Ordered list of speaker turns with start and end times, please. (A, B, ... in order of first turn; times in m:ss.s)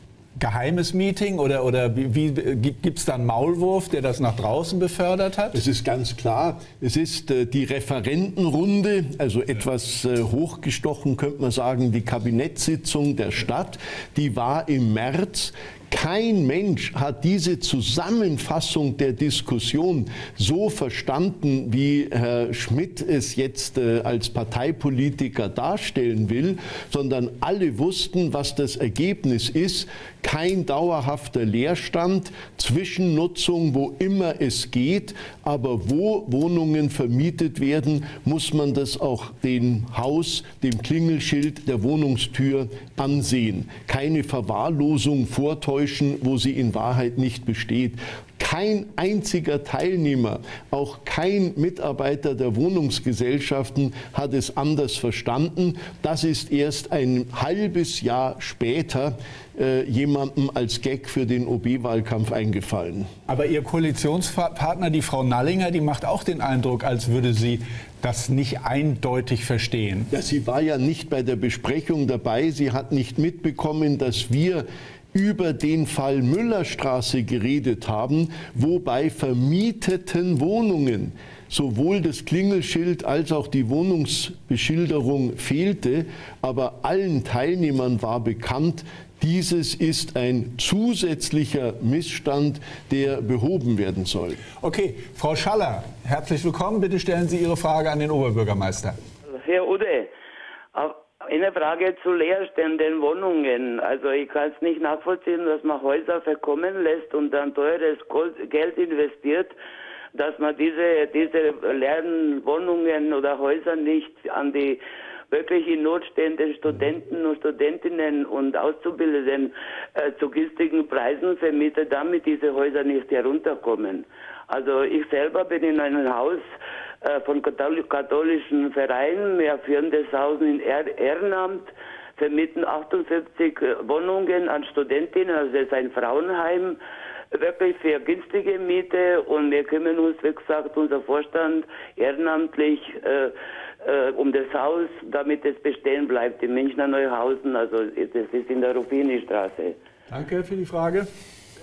0:00.4-0:05.6 A
0:05.5-1:03.1 B
1:03.3-1:10.1 A
1:10.1-1:34.4 B
1:34.6-1:39.0 A
1:39.3-1:40.1 C
1:40.7-1:49.6 C
1:50.2-1:54.8 C
1:55.3-2:06.5 C
2:07.0-2:16.8 C
2:17.3-2:29.8 C
2:30.1-2:31.1 A